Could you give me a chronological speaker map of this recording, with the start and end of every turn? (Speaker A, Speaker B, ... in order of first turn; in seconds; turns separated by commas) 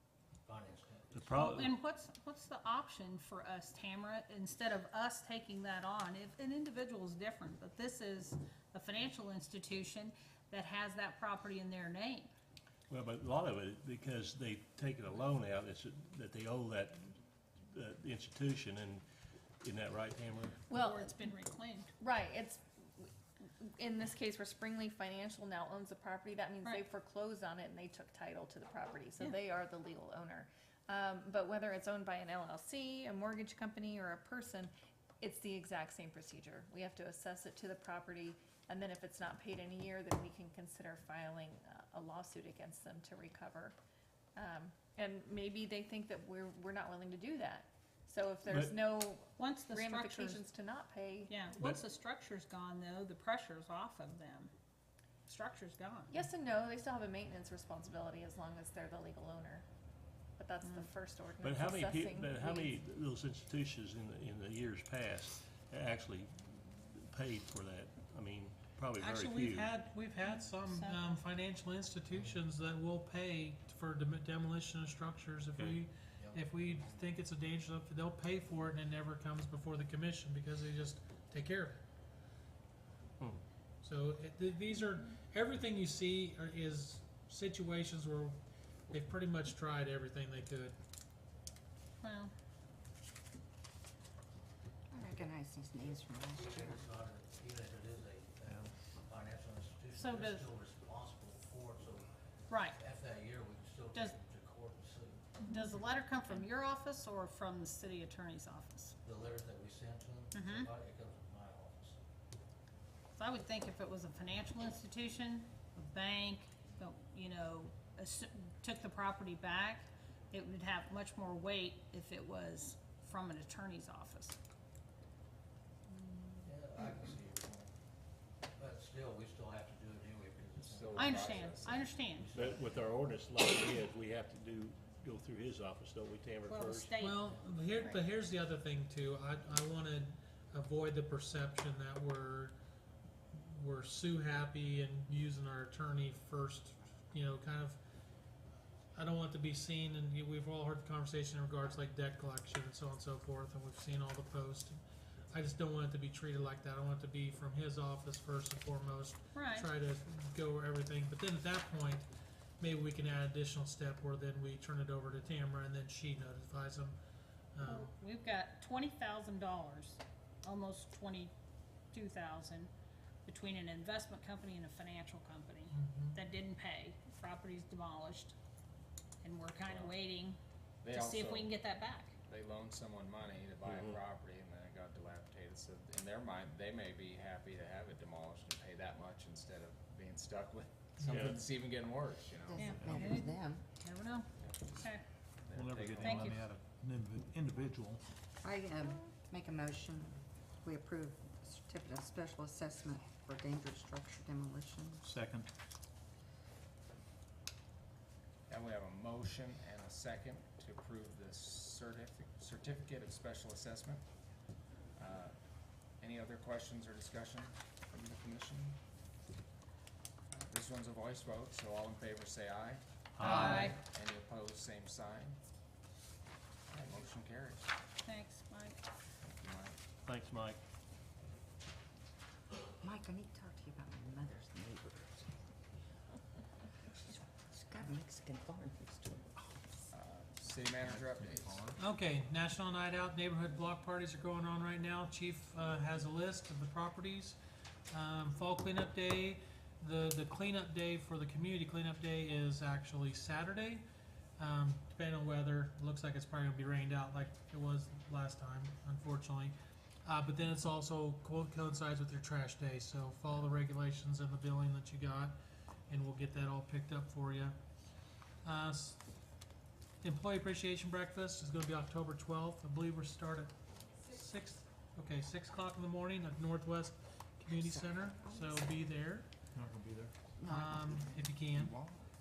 Speaker A: 0.4-1.4, Speaker B: 1.1-1.8, Speaker C: 1.3-12.3, Speaker B: 12.9-19.0, Speaker B: 19.6-20.6, Speaker D: 20.7-21.2, Speaker C: 20.7-21.9, Speaker D: 22.0-43.7, Speaker D: 44.4-51.5, Speaker B: 48.5-48.8, Speaker C: 49.3-50.5, Speaker C: 51.3-54.5, Speaker B: 51.5-51.8, Speaker C: 55.3-56.2, Speaker D: 56.1-59.6, Speaker D: 60.4-62.7, Speaker C: 60.6-60.9, Speaker B: 61.4-69.8, Speaker E: 69.0-81.8, Speaker C: 70.2-71.2, Speaker A: 72.1-72.4, Speaker B: 75.5-75.8, Speaker A: 76.2-76.8, Speaker E: 83.8-88.4, Speaker E: 88.9-90.8, Speaker C: 92.0-92.3, Speaker F: 94.9-96.9, Speaker A: 96.3-102.1, Speaker C: 99.9-100.5, Speaker C: 102.5-102.8, Speaker A: 102.7-105.3, Speaker C: 105.5-108.9, Speaker A: 109.0-112.0, Speaker C: 110.3-110.7, Speaker C: 113.1-124.4, Speaker A: 126.4-127.7, Speaker A: 128.6-131.4, Speaker G: 130.6-131.8, Speaker C: 130.9-132.3, Speaker A: 132.1-132.9, Speaker B: 132.3-136.9, Speaker C: 136.4-137.2, Speaker E: 137.0-142.6, Speaker A: 137.2-137.5, Speaker E: 143.3-147.8, Speaker E: 148.9-154.8, Speaker E: 155.3-162.1, Speaker C: 159.3-159.7, Speaker E: 162.6-167.0, Speaker E: 167.5-167.9, Speaker C: 167.6-171.3, Speaker C: 171.9-172.7, Speaker C: 173.2-178.3, Speaker E: 175.7-176.2, Speaker C: 179.2-180.4, Speaker G: 179.7-179.9, Speaker G: 180.8-181.5, Speaker C: 180.9-182.1, Speaker G: 182.2-193.0, Speaker B: 183.6-184.0, Speaker B: 191.0-191.4, Speaker F: 192.4-193.6, Speaker C: 192.6-195.0, Speaker H: 192.7-193.1, Speaker G: 194.4-194.8, Speaker G: 195.4-196.0, Speaker H: 195.5-198.0, Speaker C: 196.0-196.4, Speaker F: 198.4-205.1, Speaker H: 205.0-205.5, Speaker G: 208.5-214.0, Speaker G: 214.9-215.3, Speaker G: 216.0-218.8, Speaker G: 220.5-225.4, Speaker B: 223.2-223.7, Speaker C: 223.2-223.8, Speaker G: 226.7-227.7, Speaker C: 228.0-228.8, Speaker G: 229.2-229.8, Speaker B: 230.0-230.6, Speaker F: 232.8-235.3, Speaker F: 237.1-239.6, Speaker G: 239.9-241.6, Speaker H: 240.8-241.8, Speaker E: 241.8-247.4, Speaker E: 247.9-253.8, Speaker E: 254.4-259.5, Speaker E: 260.0-265.3, Speaker E: 265.9-267.5, Speaker E: 268.4-269.0, Speaker E: 270.0-279.3, Speaker F: 277.5-278.8, Speaker H: 279.5-280.1, Speaker F: 280.4-281.3, Speaker E: 280.4-281.8